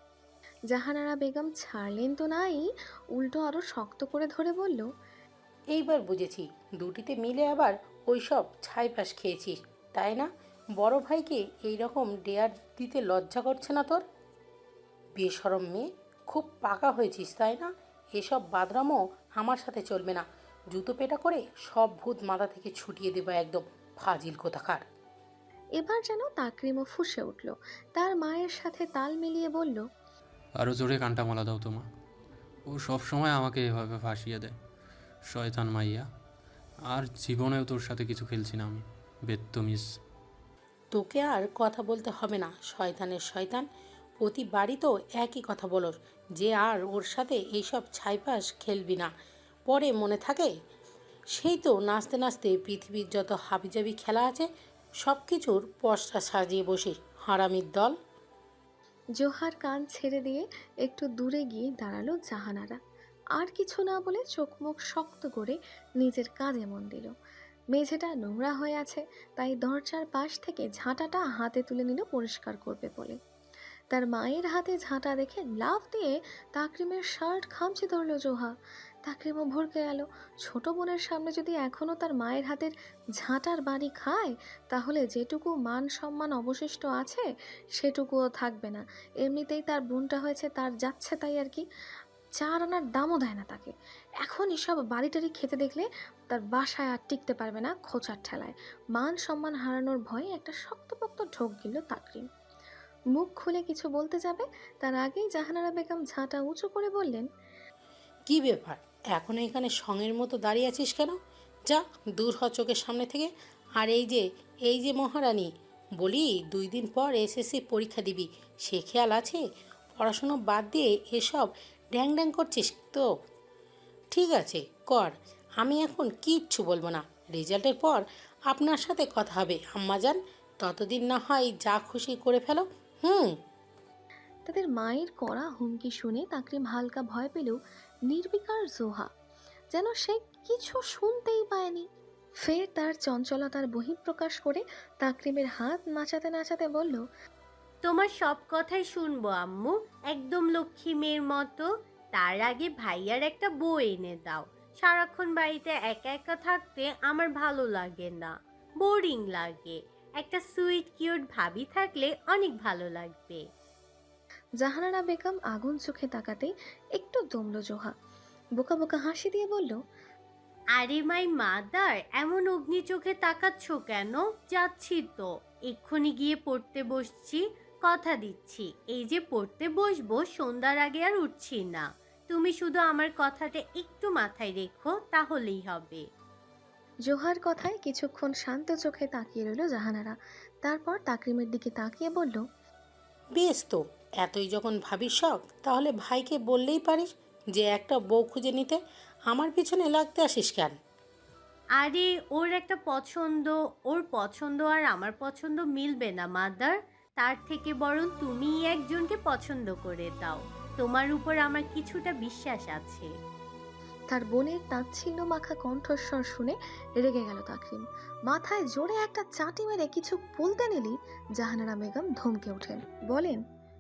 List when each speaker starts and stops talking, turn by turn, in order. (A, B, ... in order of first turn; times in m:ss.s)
0:00.7-0:04.9 A
0:05.7-0:14.0 B
0:15.2-0:24.8 B
0:25.8-0:29.8 A
0:30.6-0:31.9 C
0:32.7-0:34.6 C
0:35.3-0:36.1 C
0:36.9-0:39.9 C
0:40.9-0:43.7 B
0:44.2-0:49.1 B
0:49.7-0:50.5 B
0:51.3-0:54.5 B
0:55.0-0:58.0 B
0:59.2-1:02.8 A
1:03.4-1:07.1 A
1:07.7-1:13.2 A
1:13.9-1:18.5 A
1:19.1-1:27.3 A
1:27.8-1:31.6 A
1:32.4-1:33.7 A
1:34.2-1:42.2 A
1:43.2-1:47.2 A
1:48.3-1:51.2 B
1:51.7-1:59.4 B
2:00.0-2:03.1 B
2:04.1-2:13.3 B
2:14.5-2:17.6 A
2:18.1-2:19.1 A
2:19.7-2:21.9 A
2:22.4-2:27.0 A
2:27.8-2:43.4 D
2:44.6-2:47.9 A
2:48.6-2:49.8 A
2:50.8-3:06.0 D
3:07.1-3:12.4 A
3:13.4-3:20.8 B
3:21.8-3:33.1 D
3:34.1-3:43.4 A